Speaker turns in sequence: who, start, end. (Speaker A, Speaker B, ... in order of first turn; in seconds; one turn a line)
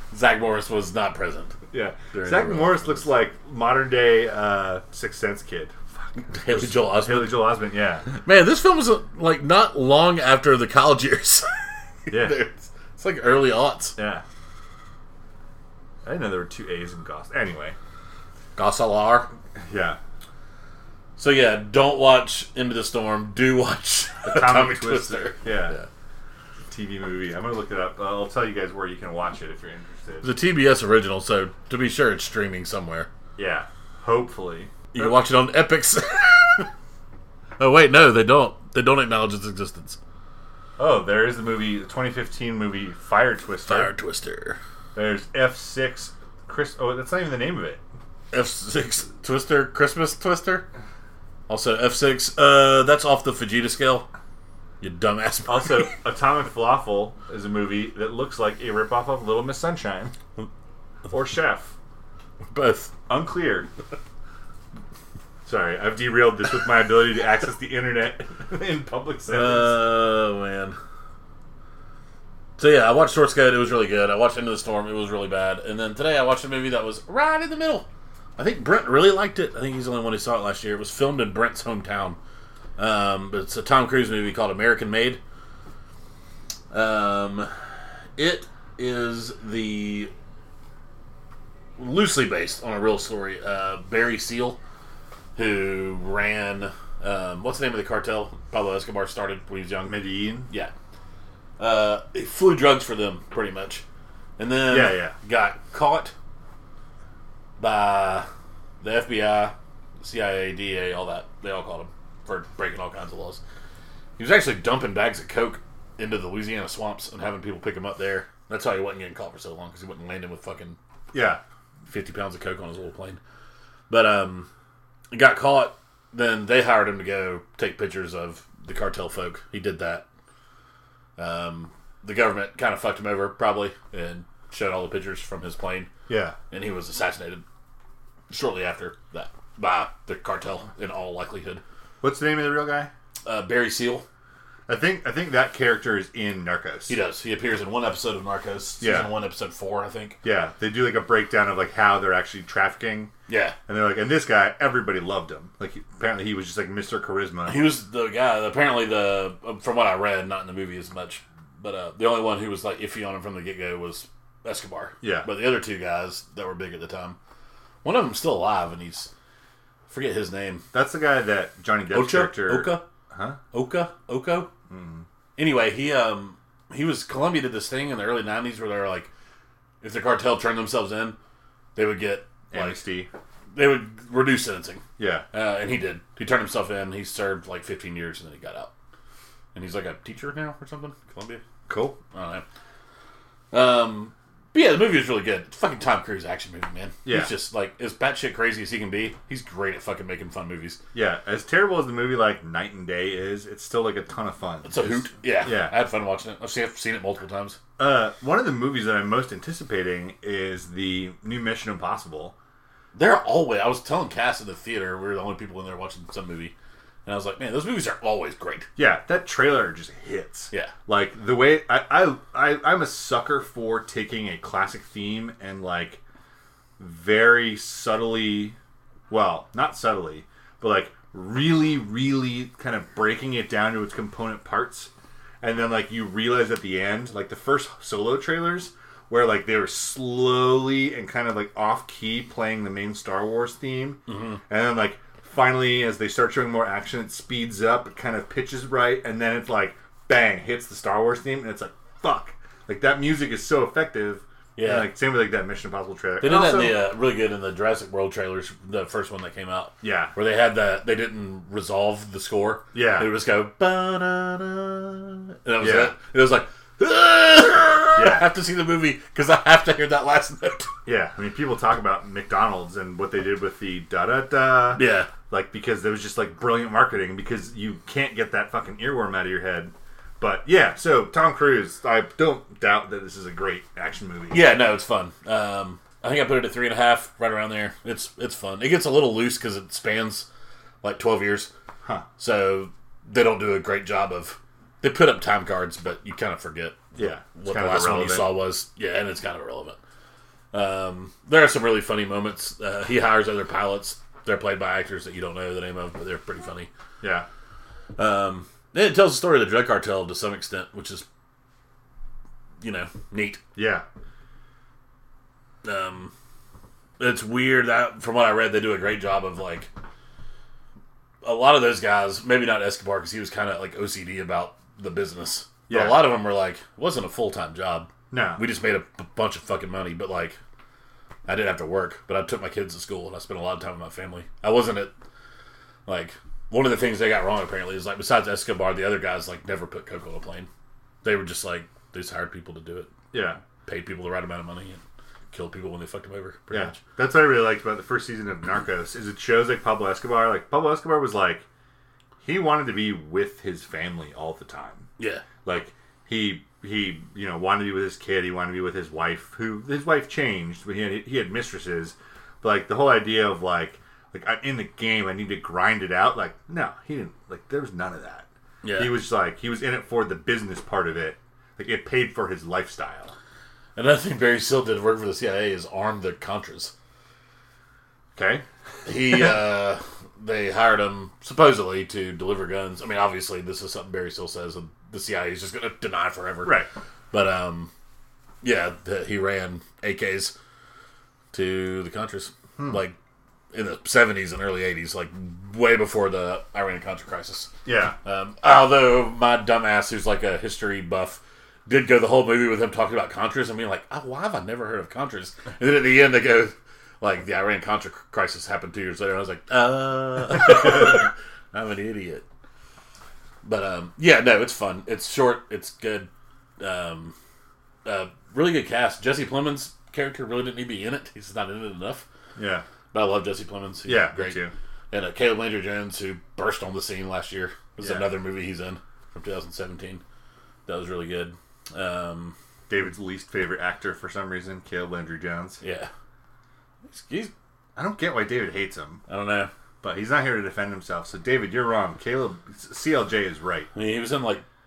Speaker A: 0.1-1.6
Speaker B: 1.7-8.1
Speaker A: 2.1-3.0
Speaker A: 6.2-7.5
Speaker A: 8.1-11.5
Speaker A: 12.1-14.0
Speaker B: 12.1-12.4
Speaker B: 14.0-14.2
Speaker B: 16.1-17.8
Speaker A: 18.6-19.3
Speaker B: 19.6-20.0
Speaker A: 21.2-25.9
Speaker B: 24.2-25.8
Speaker B: 26.7-30.3
Speaker A: 30.2-33.1
Speaker B: 33.4-35.1
Speaker A: 34.9-36.7
Speaker A: 37.6-40.0
Speaker B: 40.8-43.9
Speaker A: 43.7-44.6
Speaker B: 45.0-47.8
Speaker A: 48.3-50.7
Speaker A: 51.5-54.1
Speaker A: 54.8-55.9
Speaker B: 55.5-60.1
Speaker B: 61.1-61.7
Speaker A: 62.5-62.9
Speaker B: 63.1-63.7
Speaker B: 65.5-69.8
Speaker A: 69.3-70.8
Speaker A: 72.6-82.2
Speaker A: 82.8-85.2
Speaker A: 86.7-87.5
Speaker A: 88.2-90.1
Speaker A: 91.8-94.6
Speaker A: 95.4-100.7
Speaker B: 99.8-100.5
Speaker A: 101.6-103.8
Speaker A: 104.4-106.1
Speaker B: 104.7-105.2
Speaker A: 107.6-108.3
Speaker A: 108.8-113.4
Speaker A: 114.2-120.8
Speaker B: 121.1-121.4
Speaker A: 121.9-123.2
Speaker A: 123.9-124.5
Speaker A: 125.1-130.1
Speaker A: 131.2-135.9
Speaker B: 136.1-136.4
Speaker A: 136.5-137.4
Speaker A: 138.3-141.6
Speaker B: 142.0-142.9
Speaker A: 143.3-144.1
Speaker B: 144.7-147.0
Speaker A: 146.9-150.2
Speaker B: 148.8-149.1
Speaker B: 150.2-153.1
Speaker A: 153.3-153.6
Speaker B: 153.7-157.7
Speaker A: 157.5-167.2
Speaker B: 165.0-165.3
Speaker A: 167.8-169.1
Speaker A: 169.9-170.7
Speaker B: 170.7-173.4
Speaker A: 171.9-172.9
Speaker A: 173.5-174.5
Speaker B: 174.7-175.1
Speaker A: 175.4-179.1
Speaker A: 179.8-181.2
Speaker A: 181.8-182.8
Speaker B: 182.5-183.1
Speaker A: 183.5-188.7
Speaker B: 185.0-185.3
Speaker A: 189.5-191.4
Speaker B: 191.7-192.0
Speaker A: 192.1-192.4
Speaker A: 193.5-200.8
Speaker B: 197.1-197.3
Speaker B: 200.9-205.8
Speaker A: 204.6-207.6
Speaker B: 207.8-212.3
Speaker A: 212.9-216.5
Speaker A: 217.1-218.7
Speaker B: 218.8-226.0
Speaker B: 226.8-228.6
Speaker B: 229.1-234.9
Speaker B: 235.4-256.8
Speaker A: 244.1-244.4
Speaker A: 254.6-254.9
Speaker A: 256.2-270.7
Speaker B: 259.8-260.1
Speaker B: 262.7-263.1
Speaker B: 265.6-265.9
Speaker B: 268.0-268.3
Speaker B: 270.9-284.5
Speaker A: 274.7-275.1
Speaker A: 284.3-290.3
Speaker A: 290.8-291.5
Speaker A: 292.2-299.8
Speaker B: 297.0-298.4
Speaker A: 300.5-306.7
Speaker B: 307.0-307.3
Speaker A: 308.0-311.1
Speaker A: 312.6-313.4
Speaker B: 313.6-313.9
Speaker A: 315.6-316.1
Speaker A: 317.0-319.7
Speaker A: 321.2-330.4
Speaker B: 325.7-326.1
Speaker B: 328.1-328.4
Speaker A: 331.3-334.9
Speaker A: 335.9-340.5
Speaker A: 341.0-342.9
Speaker B: 343.1-343.4
Speaker A: 343.6-346.8
Speaker B: 346.5-351.4
Speaker B: 352.2-354.9
Speaker A: 355.0-355.2
Speaker B: 355.4-373.1
Speaker A: 368.6-369.0
Speaker A: 373.8-376.7
Speaker B: 378.2-378.4
Speaker A: 378.9-387.7
Speaker B: 386.4-386.7
Speaker A: 388.4-390.4
Speaker A: 391.3-393.0
Speaker A: 393.5-397.5
Speaker B: 397.6-398.0
Speaker A: 398.0-412.2
Speaker A: 413.4-416.1
Speaker A: 416.6-417.1
Speaker A: 417.9-422.1
Speaker B: 422.4-422.6
Speaker A: 422.9-430.0
Speaker B: 423.9-424.5
Speaker B: 427.8-428.1
Speaker A: 430.7-432.4
Speaker B: 432.7-435.6
Speaker A: 435.6-435.9
Speaker A: 436.9-437.3
Speaker B: 437.8-439.0
Speaker A: 439.1-439.5
Speaker B: 439.8-443.7
Speaker A: 443.7-444.4